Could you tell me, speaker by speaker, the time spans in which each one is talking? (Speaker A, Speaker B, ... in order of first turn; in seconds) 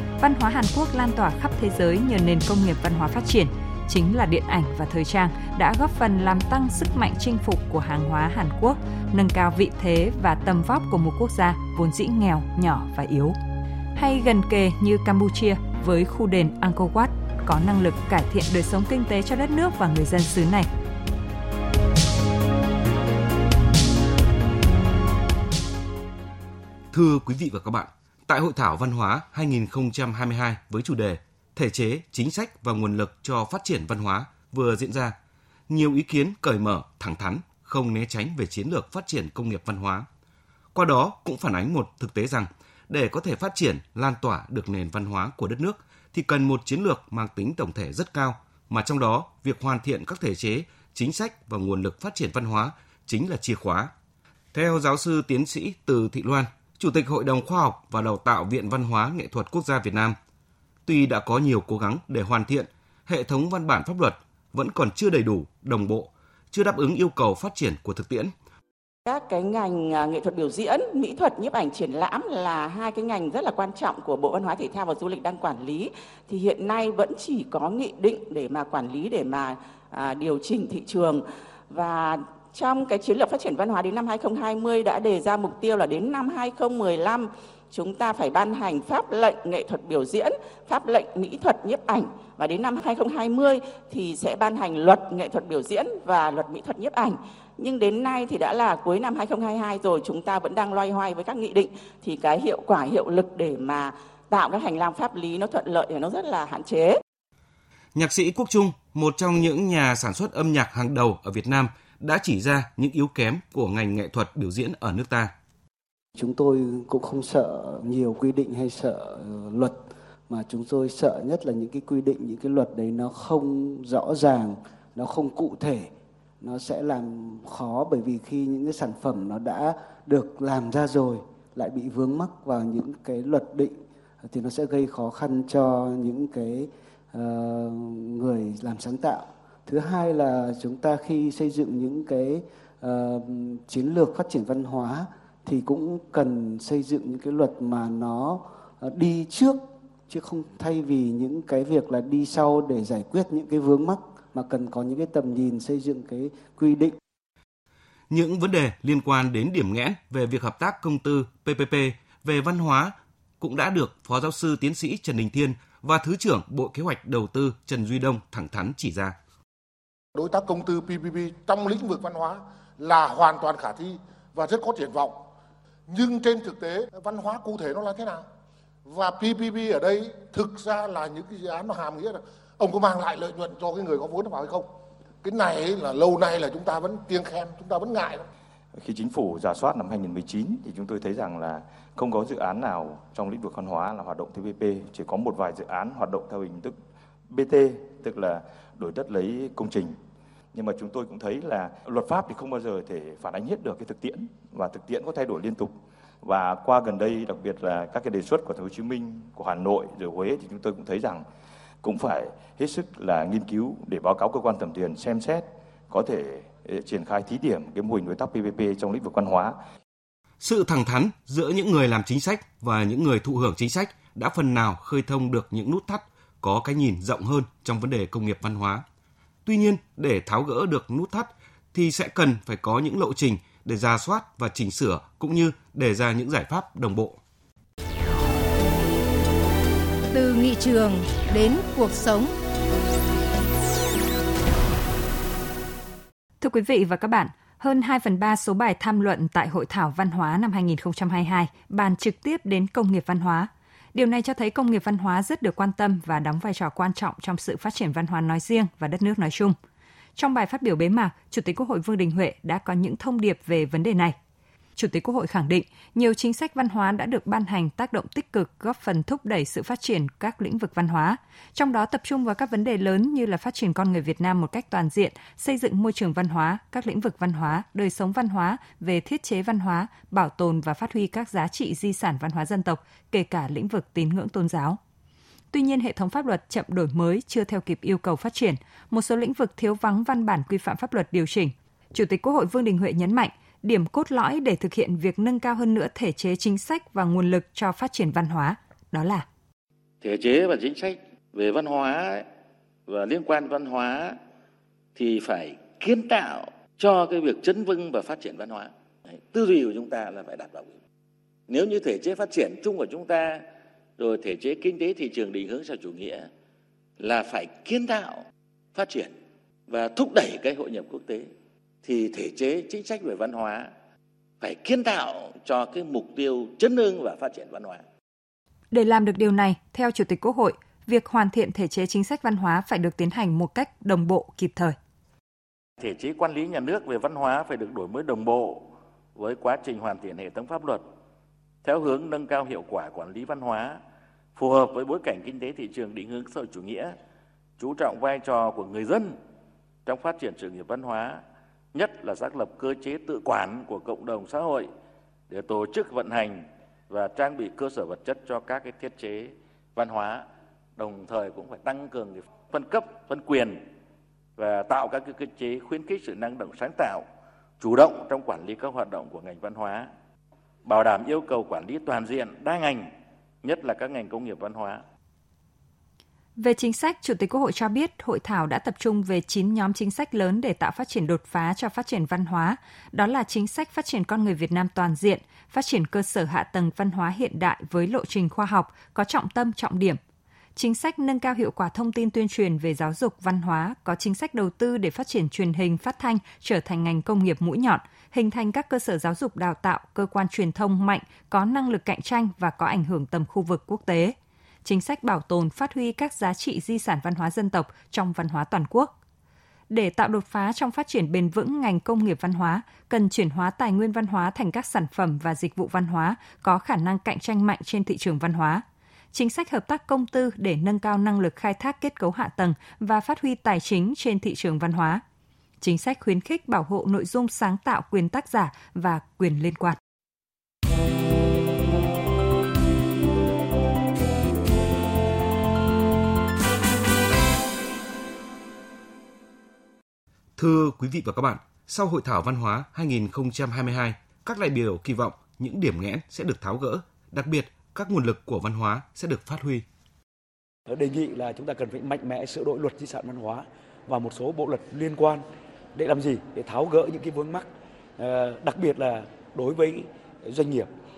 Speaker A: 0.2-13.3, 13.9-20.7, 246.4-259.6, 260.1-264.1, 264.8-284.8, 285.5-299.2, 328.7-334.7, 376.4-390.0, 390.6-408.9, 409.7-425.0, 425.6-429.8
Speaker B: 26.9-35.1, 35.7-40.0, 40.7-53.9, 54.5-60.1, 60.9-68.3, 107.9-115.3, 158.1-169.2, 220.4-228.8, 229.4-237.2, 440.4-449.6
Speaker C: 69.0-107.0
Speaker D: 116.2-125.9, 126.4-133.7, 134.2-156.9
Speaker E: 170.1-175.2, 175.9-178.2, 178.9-184.7, 185.2-188.2
Speaker F: 188.8-196.7, 197.3-199.9, 200.5-205.7, 206.2-211.2, 211.8-219.6
Speaker G: 240.1-242.3
Speaker H: 300.0-302.2, 302.9-304.1, 304.9-308.7, 309.3-310.7, 311.5-313.4, 314.0-316.3, 317.0-318.2, 318.7-319.1, 319.7-321.3, 321.8-323.7, 324.4-327.8, 335.8-340.8, 341.6-343.8, 344.4-346.9, 347.6-349.1, 349.9-351.2, 351.7-354.7, 355.3-360.2, 360.8-363.6, 364.4-367.0, 367.6-369.9, 370.6-372.9, 373.4-374.8
Speaker I: 450.7-455.2, 455.7-460.7